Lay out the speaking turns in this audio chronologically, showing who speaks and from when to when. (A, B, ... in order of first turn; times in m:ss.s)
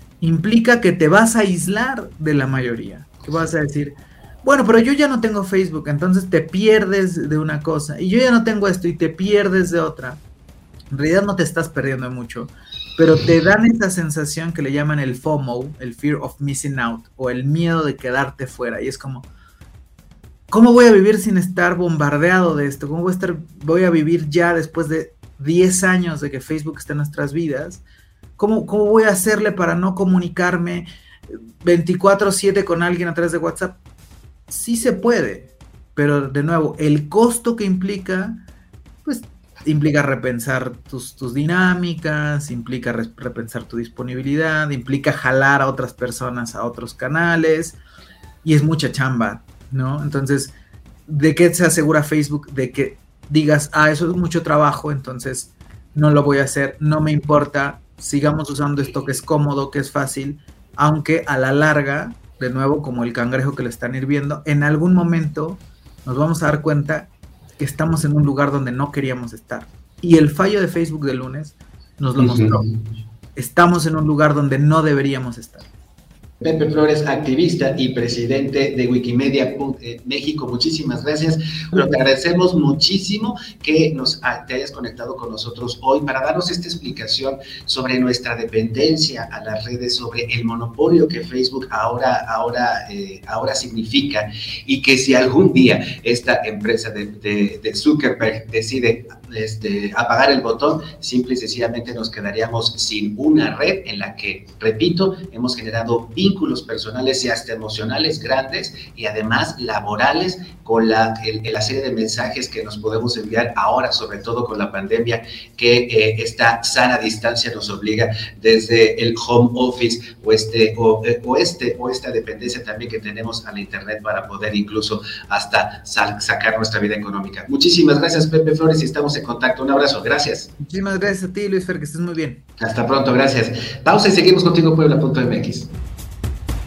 0:00.2-0:10.2 A
0:10.9-0:19.3 A
0:20.5-0:27.8 A
0:28.4-0:33.8 A
0:34.5-0:38.4 A
0:39.0-0:47.8 A
0:48.4-0:50.6 A
0:51.1-1:12.6 A
1:12.2-1:12.6 B
1:13.4-1:15.7 A
1:16.4-2:10.5 B
1:21.7-1:22.1 A
2:10.6-2:12.4 A
2:12.6-2:15.7 B